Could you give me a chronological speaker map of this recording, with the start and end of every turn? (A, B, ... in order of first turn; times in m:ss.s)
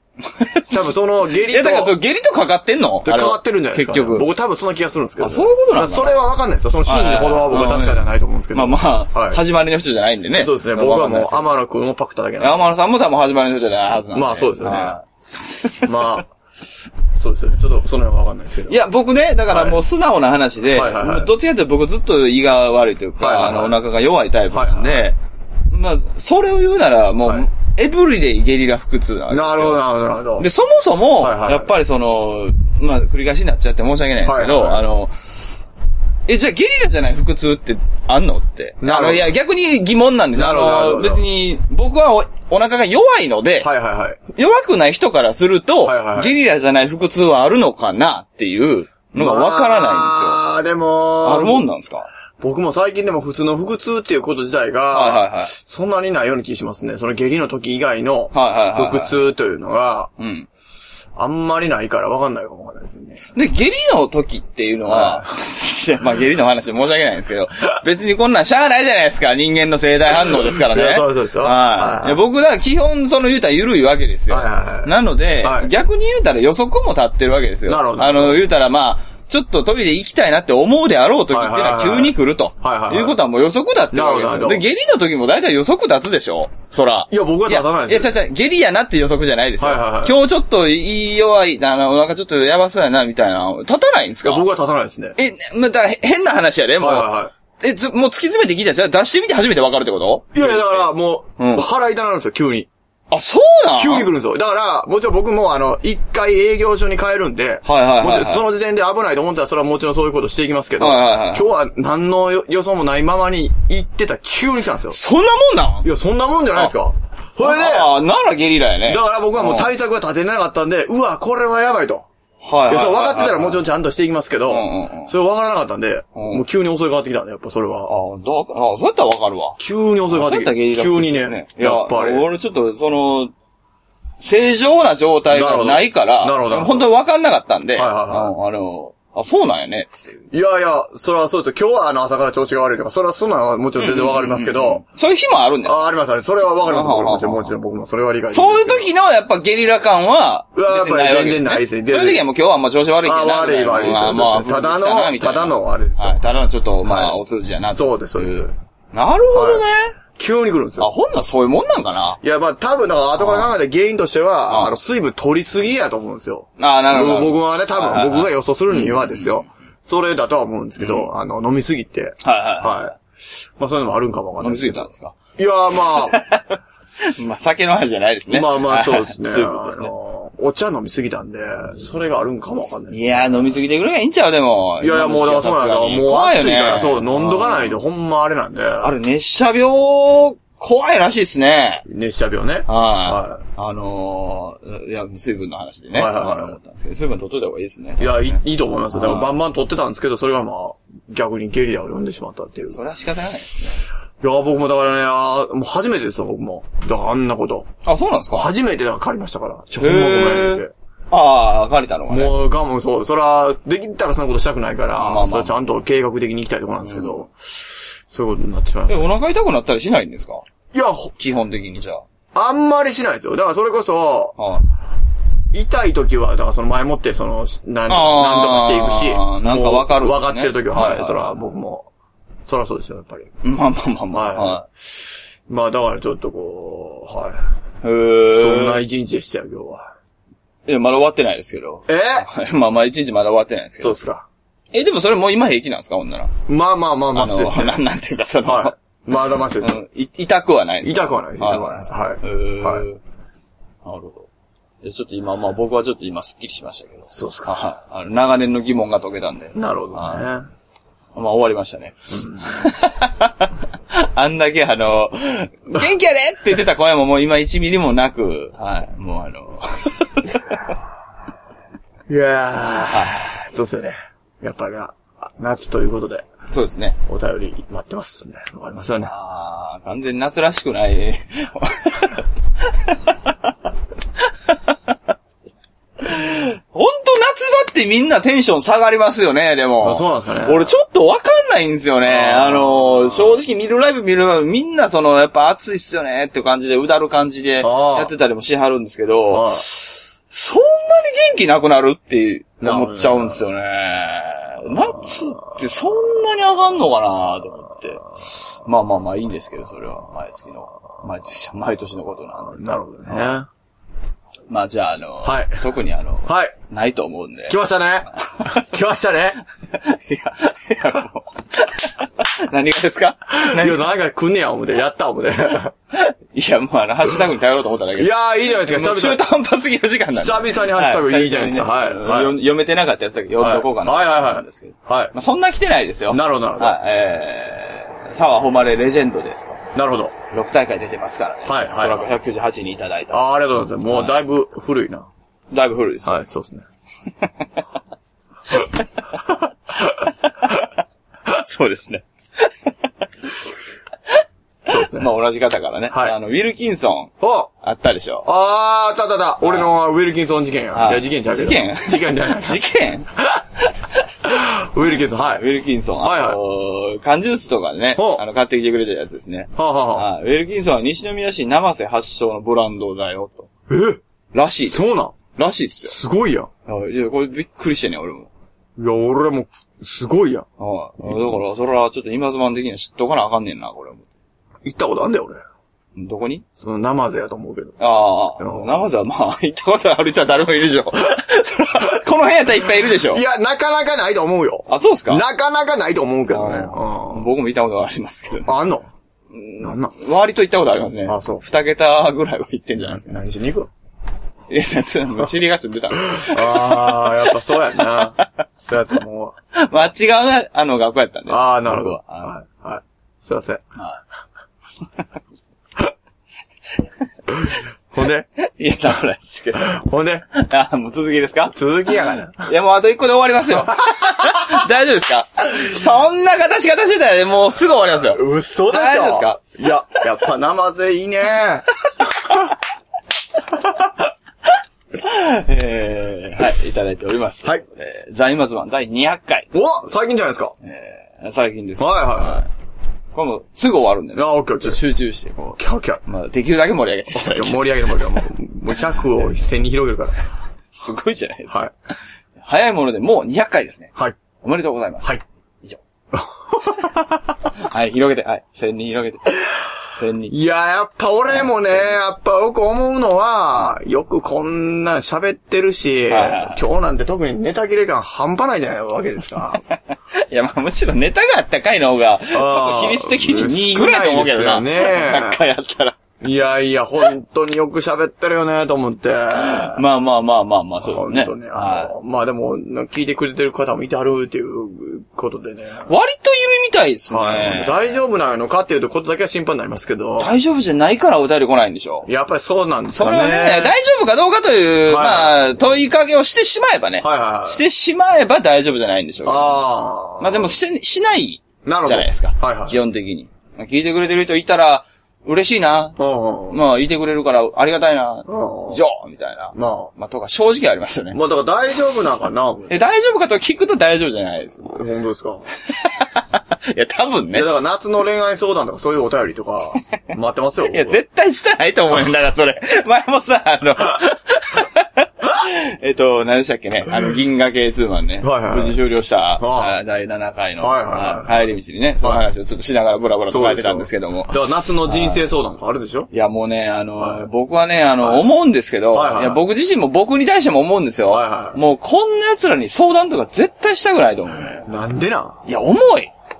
0:00.2-0:04.3 A
0:00.7-0:02.0 B
0:03.0-0:09.4 B
0:05.2-0:06.2 A
0:06.8-0:11.6 A
0:10.4-0:12.7 B
0:12.4-0:16.2 A
0:14.1-0:15.0 B
0:15.8-0:16.3 B
0:17.2-0:18.8 B
0:18.7-0:25.2 A
0:19.5-0:19.8 B
0:20.7-0:21.3 B
0:23.2-0:23.8 B
0:24.5-0:25.1 B
0:25.7-0:29.8 A
0:29.3-0:30.5 B
0:30.4-0:35.1 A
0:31.2-0:31.7 B
0:34.2-0:34.8 B
0:36.3-0:43.7 A
0:38.8-0:39.3 B
0:40.3-0:41.2 B
0:43.6-0:44.2 B
0:44.3-0:50.4 A
0:45.8-0:46.3 B
0:49.2-0:51.6 B
0:51.2-0:52.1 A
0:52.4-1:00.1 B
0:54.9-0:55.6 A
0:58.3-0:59.2 A
1:00.2-1:00.5 A
1:01.2-1:03.2 B
1:03.4-1:34.5 A
1:04.9-1:05.3 B
1:10.2-1:12.2 B
1:14.3-1:15.7 B
1:17.7-1:18.4 B
1:21.3-1:23.2 B
1:23.9-1:24.7 B
1:27.1-1:28.2 B
1:29.6-1:30.2 B
1:34.2-1:35.2 B
1:35.2-1:41.7 A
1:36.8-1:37.3 B
1:40.3-1:42.7 B
1:43.1-1:44.1 A
1:43.8-1:55.0 B
1:47.6-1:48.5 A
1:50.8-1:51.5 A
1:54.9-1:55.9 A
1:55.8-1:58.0 B
1:57.4-1:59.7 A
1:58.9-2:02.1 B
2:02.4-2:03.6 A
2:02.7-2:07.9 B
2:04.5-2:05.1 A
2:06.2-2:06.4 A
2:07.9-2:13.3 A
2:09.6-2:12.3 B
2:14.2-2:20.2 A
2:15.3-2:16.9 B
2:17.8-2:18.3 B
2:20.3-2:24.8 B
2:23.8-2:27.5 A
2:25.6-2:28.9 B
2:28.3-2:40.0 A
2:30.6-2:32.2 B
2:33.0-2:37.2 B
2:37.7-2:38.5 B
2:39.3-2:39.6 B
2:40.2-2:40.9 B
2:40.8-2:42.2 A
2:42.2-2:53.0 B
2:43.2-2:43.6 A
2:44.5-2:44.8 A
2:46.6-2:49.4 A
2:50.8-2:51.1 A
2:52.2-2:52.9 A
2:53.6-2:56.2 B
2:54.4-2:55.2 A
2:55.9-2:59.9 A
2:58.3-3:03.6 B
3:02.9-3:07.8 A
3:04.8-3:08.9 B
3:08.8-3:11.8 A
3:11.9-3:13.4 B
3:12.7-3:18.4 A
3:15.9-3:16.6 B
3:18.0-3:22.8 B
3:18.9-3:19.4 A
3:22.7-3:23.8 A
3:24.2-3:27.7 B
3:27.8-3:28.5 A
3:28.3-3:30.7 B
3:29.8-3:32.4 A
3:32.1-3:37.3 B
3:35.0-3:35.6 A
3:36.8-3:37.2 A
3:38.1-3:39.1 B
3:38.9-3:40.4 A
3:40.7-3:41.1 B
3:41.2-3:42.0 A
3:42.3-3:44.4 B
3:44.4-3:44.7 A
3:45.5-3:51.9 B
3:47.9-3:51.4 A
3:52.5-3:53.3 B
3:53.4-3:54.6 A
3:54.1-3:57.4 B
3:57.8-3:58.8 A
3:58.4-3:59.9 B
4:00.7-4:04.0 A
4:01.9-4:02.3 B
4:03.8-4:04.3 B
4:04.7-4:06.3 A
4:06.5-4:07.8 B
4:07.1-4:08.8 A
4:08.4-4:09.8 B
4:09.6-4:13.0 A
4:10.8-4:12.8 B
4:13.8-4:14.3 A
4:14.8-4:20.3 A
4:17.1-4:17.6 B
4:19.6-4:20.4 B
4:21.2-4:30.6 A
4:32.1-4:36.3 B
4:32.9-4:33.2 A
4:36.5-4:37.0 A
4:37.1-4:39.1 B
4:39.0-4:43.5 A
4:44.2-4:45.0 A
4:46.0-5:13.4 A
4:49.8-4:50.7 B
4:52.1-4:53.4 B
4:57.6-4:58.1 B
4:59.3-4:59.6 B
5:02.6-5:03.4 B
5:12.5-5:13.5 B
5:14.5-5:17.6 A
5:15.2-5:15.6 B
5:16.3-5:16.5 B
5:17.5-5:19.4 B
5:18.2-5:18.7 A
5:19.7-5:23.9 A
5:23.4-5:25.7 B
5:25.9-5:39.6 A
5:28.0-5:29.2 B
5:30.2-5:32.4 B
5:33.4-5:35.1 B
5:36.1-5:36.8 B
5:39.7-5:40.1 B
5:40.3-5:43.2 A
5:41.5-5:42.1 B
5:43.1-5:45.1 B
5:43.9-5:44.2 A
5:45.5-5:46.2 A
5:46.0-5:46.6 B
5:49.9-5:50.8 A
5:51.3-5:52.9 A
5:54.1-5:58.3 A
5:54.7-5:55.1 B
5:55.9-5:56.2 B
5:57.2-5:57.5 B
5:58.2-6:02.6 B
5:59.4-5:59.7 A
6:00.7-6:04.1 A
6:04.2-6:05.4 B
6:05.1-6:13.5 A
6:06.0-6:06.4 B
6:08.0-6:08.2 B
6:09.6-6:10.1 B
6:13.7-6:14.0 B
6:14.3-6:16.0 A
6:14.6-6:15.2 B
6:15.9-6:16.5 B
6:16.7-6:18.3 A
6:18.8-6:20.5 B
6:20.6-6:24.1 A
6:24.6-6:25.4 B
6:26.0-6:26.4 A
6:26.6-6:27.8 B
6:27.8-6:33.2 A
6:28.4-6:28.9 B
6:32.9-6:37.3 B
6:34.7-6:35.2 A
6:36.3-6:38.6 A
6:38.5-6:38.9 B
6:39.3-6:43.2 A
6:39.6-6:39.9 B
6:41.1-6:41.4 B
6:42.9-6:43.7 B
6:44.5-6:48.3 A
6:46.0-6:49.4 B
6:49.5-6:52.4 A
6:51.3-6:53.6 B
6:57.3-6:58.3 B
6:58.4-6:59.8 A
6:59.6-7:00.3 B
7:00.3-7:01.6 A
7:01.5-7:02.5 B
7:02.4-7:09.4 A
7:04.0-7:04.4 B
7:08.1-7:12.5 B
7:13.5-7:13.9 B
7:15.0-7:19.6 A
7:19.5-7:20.5 B
7:20.6-7:22.5 A
7:21.8-7:22.4 B
7:23.1-7:28.2 A
7:24.2-7:24.8 B
7:25.6-7:26.0 B
7:27.1-7:30.1 B
7:30.7-7:31.6 A
7:32.4-7:35.8 A
7:36.1-7:37.4 B
7:37.6-7:40.4 A
7:40.3-7:49.6 B
7:41.4-7:41.9 A
7:46.1-7:46.6 A
7:49.7-7:56.0 A
7:52.3-7:55.4 B
7:56.2-7:59.8 B
7:59.3-8:01.9 A
8:00.8-8:05.9 B
8:05.9-8:08.0 A
8:07.1-8:10.3 B
8:10.2-8:12.1 A
8:12.1-8:13.8 B
8:12.9-8:19.6 A
8:14.9-8:15.4 B
8:17.0-8:17.6 B
8:19.2-8:20.5 B
8:20.2-8:26.0 A
8:21.6-8:22.8 B
8:26.0-8:26.6 B
8:26.5-8:31.2 A
8:28.3-8:28.8 B
8:29.6-8:29.9 B
8:31.1-8:32.7 B
8:32.7-8:34.8 A
8:34.7-8:35.4 B
8:35.7-8:37.5 A
8:37.3-8:41.0 B
8:40.7-8:55.3 A
8:48.2-8:48.8 B
8:49.4-8:49.8 B
8:50.6-8:51.3 B
8:53.3-8:56.1 B
8:56.1-9:04.7 A
8:58.9-8:59.4 B
9:01.1-9:01.6 B
9:04.7-9:05.4 B
9:05.5-9:06.1 A